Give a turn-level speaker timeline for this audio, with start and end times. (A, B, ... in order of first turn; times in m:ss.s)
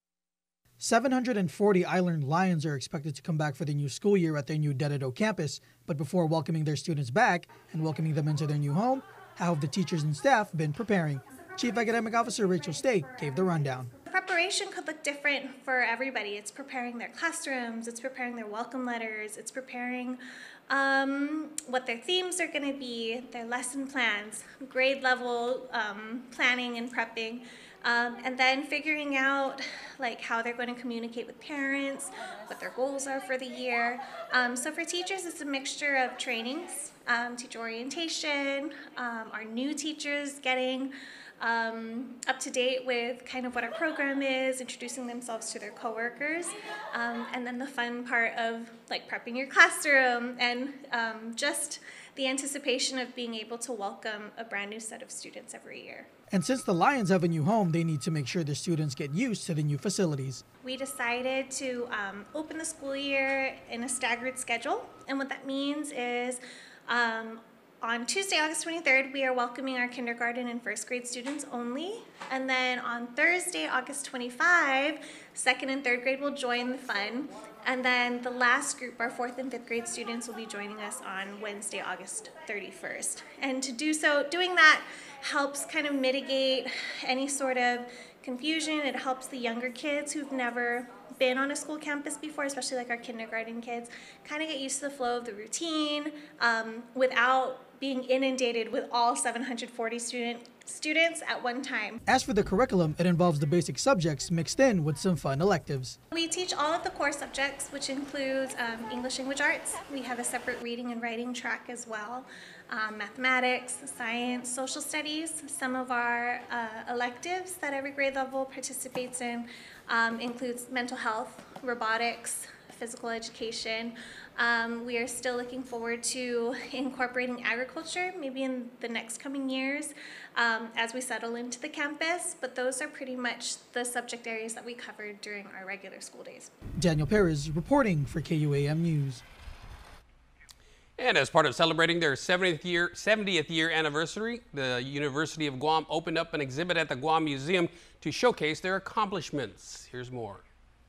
0:00.8-0:13.9 A
0:12.8-0:56.1 B
0:56.3-1:00.4 A
1:00.6-1:42.0 B
1:42.1-1:46.0 A
1:46.1-2:16.5 B
2:16.8-2:19.2 A
2:21.0-2:30.4 C